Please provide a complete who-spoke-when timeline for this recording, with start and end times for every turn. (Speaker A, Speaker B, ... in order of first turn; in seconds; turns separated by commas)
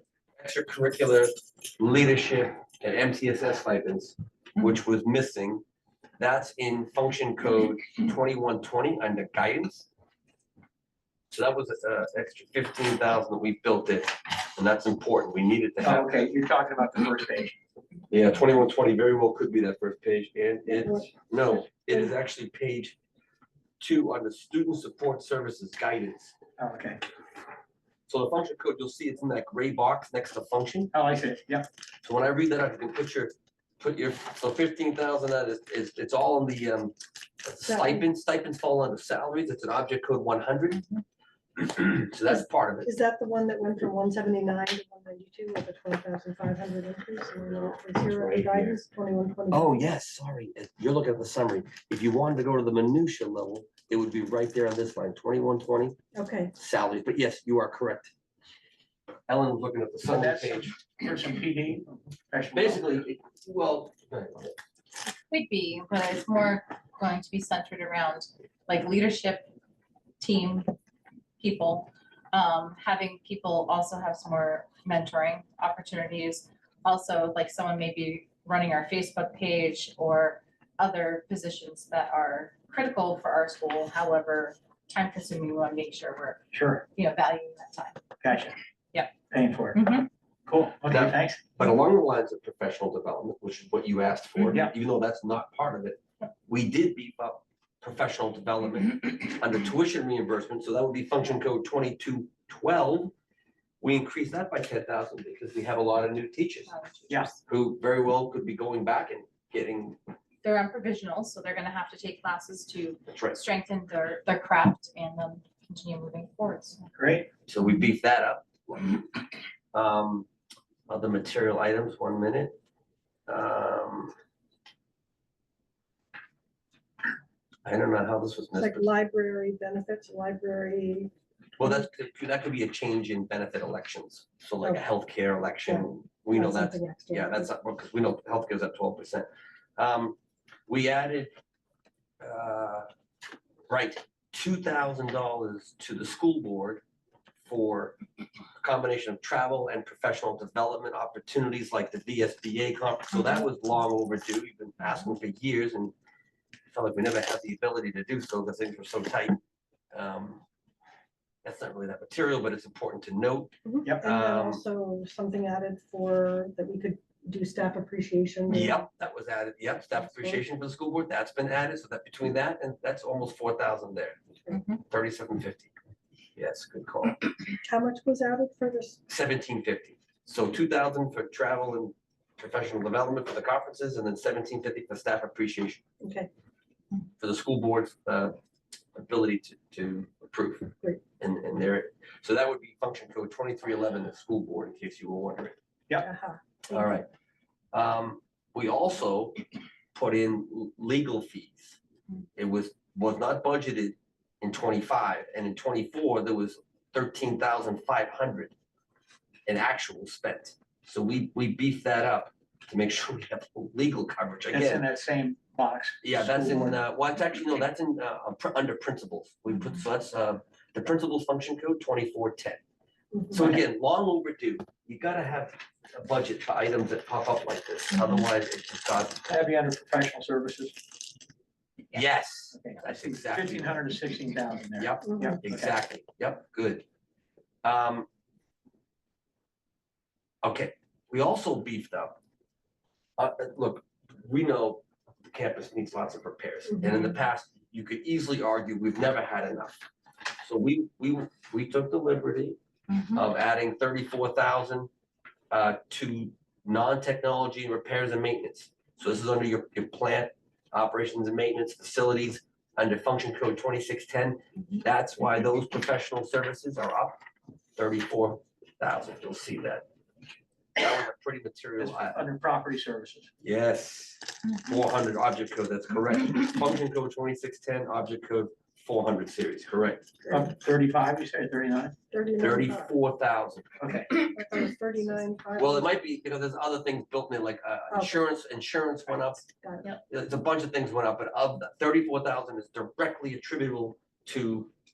Speaker A: 0.4-5.6, Speaker A: 6.2-9.9, Speaker A: 11.3-16.1, Speaker B: 15.8-17.6, Speaker A: 18.1-23.0, Speaker C: 20.7-22.0, Speaker A: 23.8-26.4, Speaker B: 26.6-27.0, Speaker A: 28.1-30.9, Speaker B: 30.9-31.7, Speaker A: 32.0-40.9, Speaker C: 37.7-38.0, Speaker A: 41.6-42.9, Speaker C: 42.8-49.8, Speaker A: 47.5-48.8, Speaker A: 49.5-56.0, Speaker C: 56.1-56.5, Speaker A: 56.6-58.1, Speaker A: 59.3-60.8, Speaker B: 60.1-63.0, Speaker A: 62.5-64.6, Speaker D: 65.3-69.5, Speaker D: 70.2-70.7, Speaker D: 71.4-88.0, Speaker B: 86.5-86.8, Speaker B: 88.2-88.5, Speaker B: 89.3-89.8, Speaker D: 89.7-90.1, Speaker B: 90.5-91.4, Speaker A: 90.9-103.1, Speaker A: 103.8-106.7, Speaker D: 106.7-107.4, Speaker A: 107.5-110.0, Speaker D: 110.4-116.8, Speaker A: 113.1-113.4, Speaker B: 117.0-117.3, Speaker A: 117.5-119.1, Speaker A: 119.7-120.3, Speaker A: 120.9-122.5, Speaker A: 123.3-124.1, Speaker A: 127.7-128.9, Speaker C: 128.6-131.1, Speaker A: 131.6-139.3, Speaker C: 135.7-137.5, Speaker A: 139.8-140.2, Speaker A: 140.7-141.3, Speaker A: 142.2-142.9, Speaker A: 143.7-146.8, Speaker A: 147.4-148.0, Speaker A: 148.6-155.9, Speaker A: 156.7-159.4, Speaker A: 159.9-160.4, Speaker A: 161.4-164.6, Speaker C: 163.7-168.8, Speaker A: 168.5-174.2, Speaker D: 174.5-174.8, Speaker A: 174.9-175.7, Speaker A: 176.4-177.2, Speaker C: 177.6-179.0, Speaker A: 179.1-185.8, Speaker C: 186.0-186.3, Speaker A: 187.2-188.4, Speaker A: 188.9-195.6, Speaker C: 196.0-196.9, Speaker A: 196.7-197.1, Speaker A: 197.7-199.4, Speaker A: 199.9-201.8, Speaker A: 202.4-208.5, Speaker A: 209.5-214.8, Speaker B: 214.5-216.7, Speaker A: 216.0-222.6, Speaker C: 223.1-223.5, Speaker A: 223.3-229.3, Speaker B: 229.3-230.9, Speaker A: 231.9-233.9, Speaker B: 232.5-235.7, Speaker A: 234.8-236.9, Speaker C: 235.1-235.4, Speaker A: 237.6-238.1, Speaker A: 240.4-242.2, Speaker A: 243.2-249.8, Speaker A: 250.4-252.6, Speaker D: 252.9-253.2, Speaker A: 253.1-254.9, Speaker A: 255.5-267.2, Speaker A: 267.8-269.8, Speaker A: 270.8-272.2, Speaker B: 271.8-273.3, Speaker A: 273.4-280.1, Speaker B: 280.3-281.9, Speaker C: 282.1-282.9, Speaker A: 282.4-283.7, Speaker B: 283.8-284.1, Speaker C: 284.1-285.9, Speaker A: 285.6-289.4, Speaker C: 287.9-288.2, Speaker C: 289.3-289.9, Speaker A: 290.1-294.7